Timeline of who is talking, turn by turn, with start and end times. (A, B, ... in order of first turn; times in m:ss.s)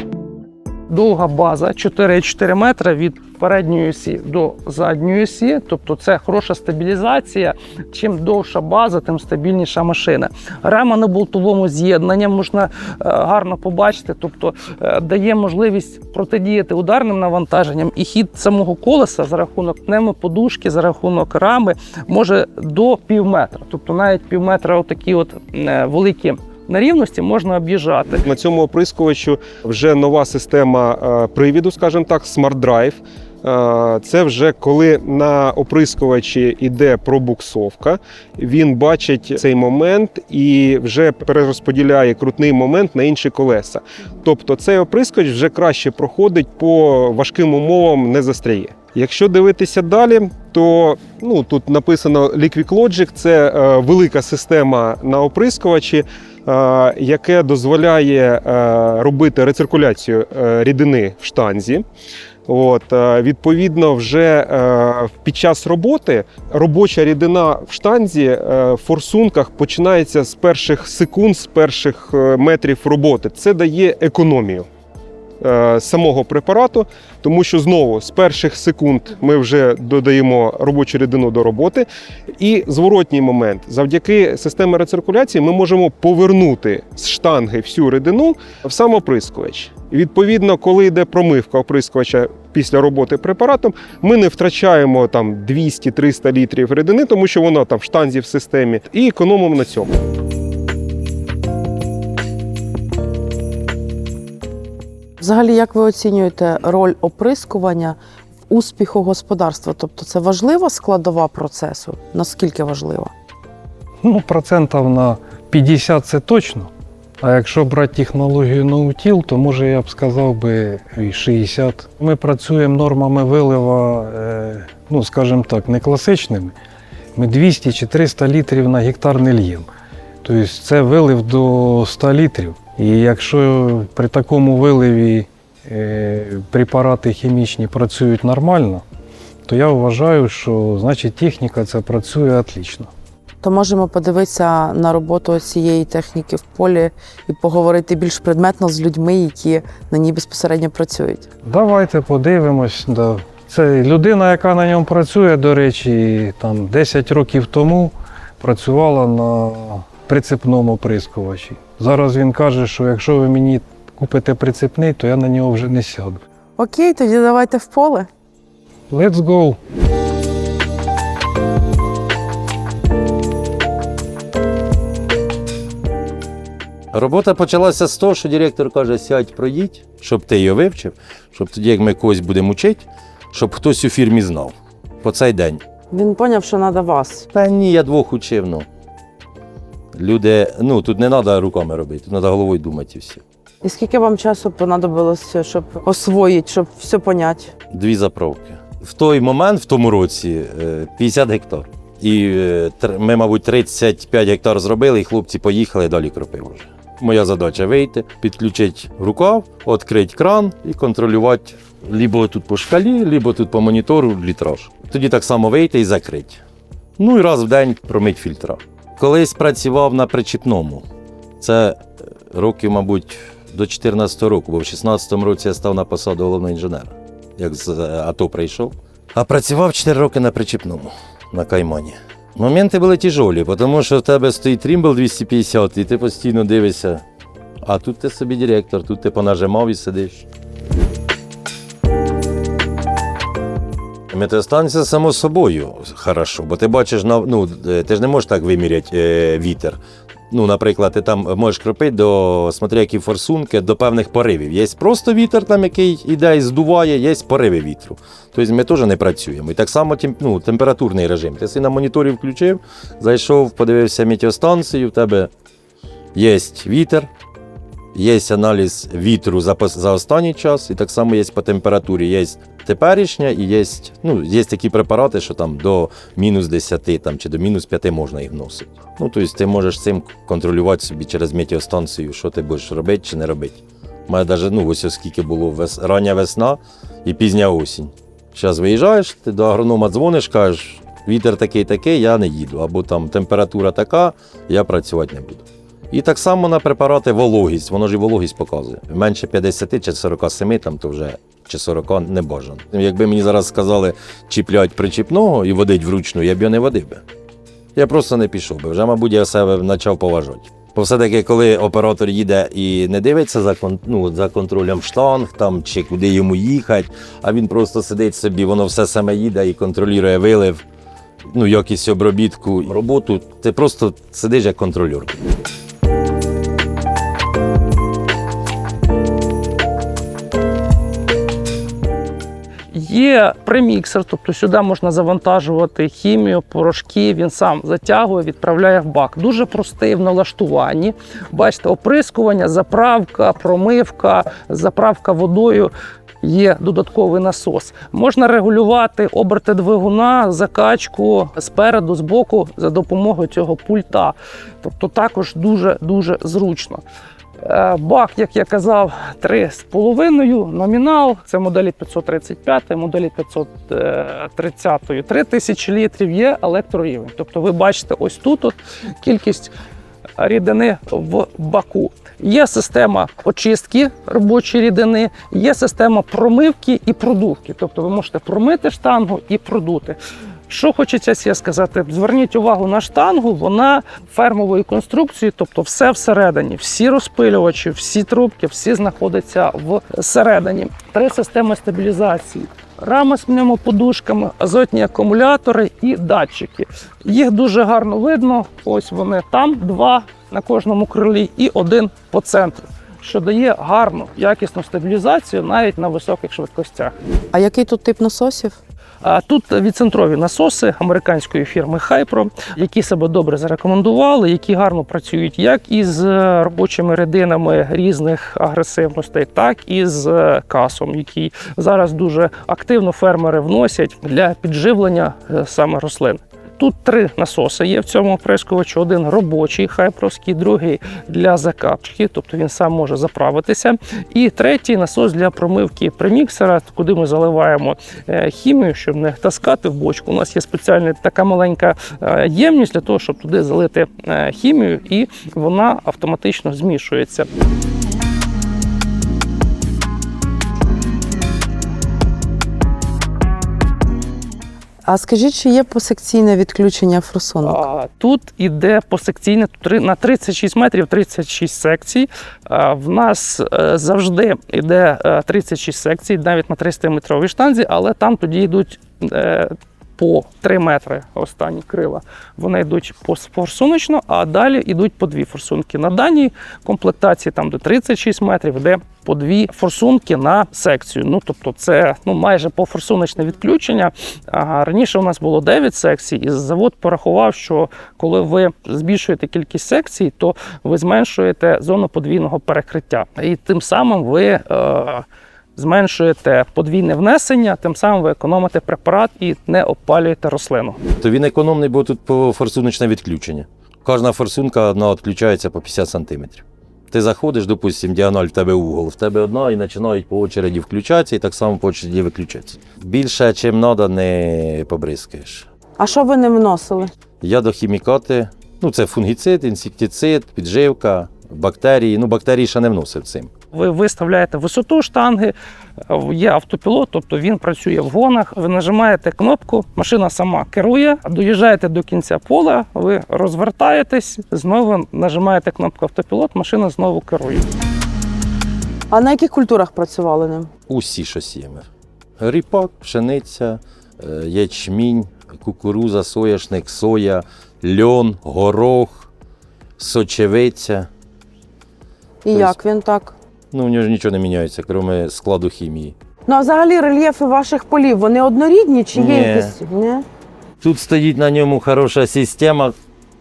0:00.9-0:28.2 A
0:28.2-1:01.8 B
1:02.4-1:14.7 B
1:15.4-1:21.9 B
1:22.4-1:40.0 B
1:45.2-1:48.0 C
1:48.5-1:53.1 C
1:54.0-2:06.5 D
2:07.1-2:09.7 D
2:10.2-2:18.8 D
2:19.4-2:22.9 D
2:23.4-2:31.3 C
2:31.4-2:46.2 D
2:46.6-2:48.1 C
2:48.9-2:49.6 D
2:56.9-3:05.6 E
3:05.9-3:07.3 C
3:07.3-3:08.7 E
3:09.9-3:13.2 E
3:13.6-3:17.5 C
3:17.7-3:36.4 E
3:37.0-3:40.8 E
3:41.4-3:57.0 E
3:57.6-4:00.2 E
4:04.1-4:09.8 E
4:10.3-4:25.3 E
4:26.1-4:27.1 E
4:27.9-5:07.0 E
5:07.7-5:20.6 E
5:21.3-5:25.2 E
5:32.7-5:45.7 A
5:46.2-5:56.8 A
5:57.4-6:09.5 A
6:10.2-6:20.0 A
6:20.5-6:47.0 A
6:47.3-6:48.6 C
6:49.0-7:27.3 A
7:34.9-7:37.6 C
7:37.4-8:15.0 A
8:15.6-8:20.8 A
8:21.0-8:35.5 E
8:35.8-8:36.9 C
8:37.2-8:43.3 E
8:43.5-8:45.3 A
8:45.9-8:57.4 A
8:58.9-9:00.5 C
9:00.7-9:01.7 E
9:02.2-9:09.1 E
9:09.8-9:10.9 E
9:12.2-9:13.1 C
9:13.5-9:15.9 E
9:16.3-9:20.0 C
9:18.9-9:19.6 E
9:20.6-9:22.7 E